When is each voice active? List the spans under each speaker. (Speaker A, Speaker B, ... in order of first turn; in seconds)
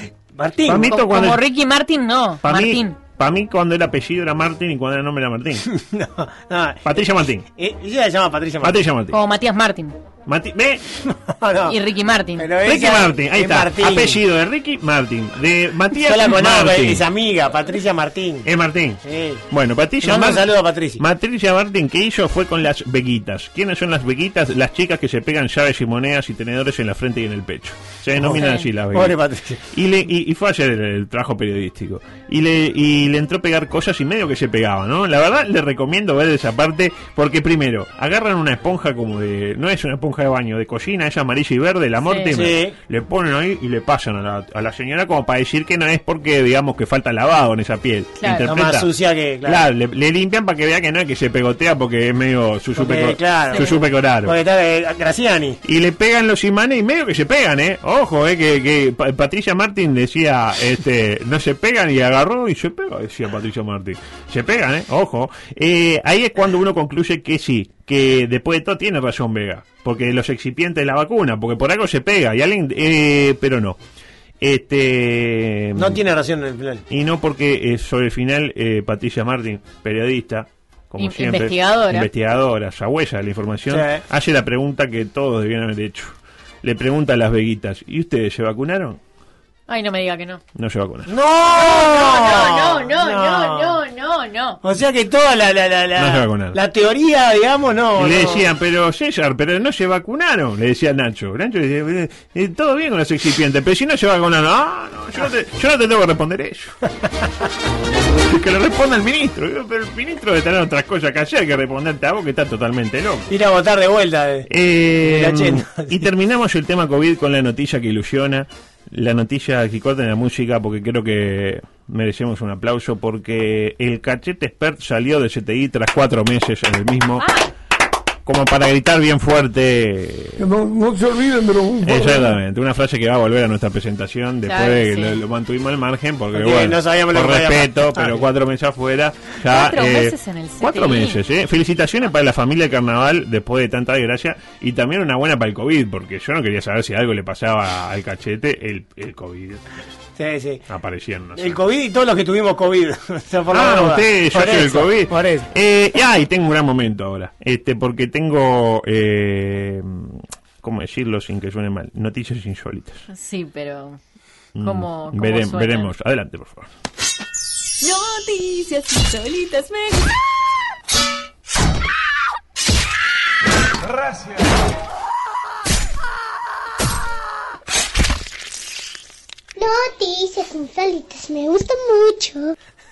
Speaker A: 0.3-0.9, 5.7-8.8, 11.1-11.8, 12.3-14.2, 15.9-18.5, 19.0-19.4, 20.0-21.0, 28.1-29.6, 42.3-42.7, 48.4-49.6, 52.7-55.6, 75.8-76.8, 83.7-84.0, 91.1-93.8, 94.6-98.5, 113.3-114.5, 115.0-116.1, 136.3-138.3, 150.2-150.6, 151.3-155.5
Speaker B: 0.6-1.4, 2.4-5.7, 6.8-7.5, 8.6-9.2, 10.3-10.8, 12.6-17.1, 18.4-29.2, 29.7-48.9, 49.4-54.4, 55.6-73.8, 74.4-76.0, 76.9-89.0, 90.5-91.1, 96.0-96.6, 98.0-106.8, 108.3-113.3, 114.5-127.2, 128.2-130.4, 131.8-149.6, 150.7-151.6, 153.5-163.0, 164.6-166.7
Speaker C: 0.9-3.0, 9.1-9.9, 11.7-12.5, 28.4-28.6, 48.2-48.5, 53.5-53.8, 81.0-82.1, 89.7-90.4, 91.6-94.6, 127.2-127.5, 134.4-135.2, 139.5-141.2, 163.1-164.0, 164.6-165.9, 167.8-170.1
Speaker D: 130.4-132.3
Speaker E: 179.6-182.5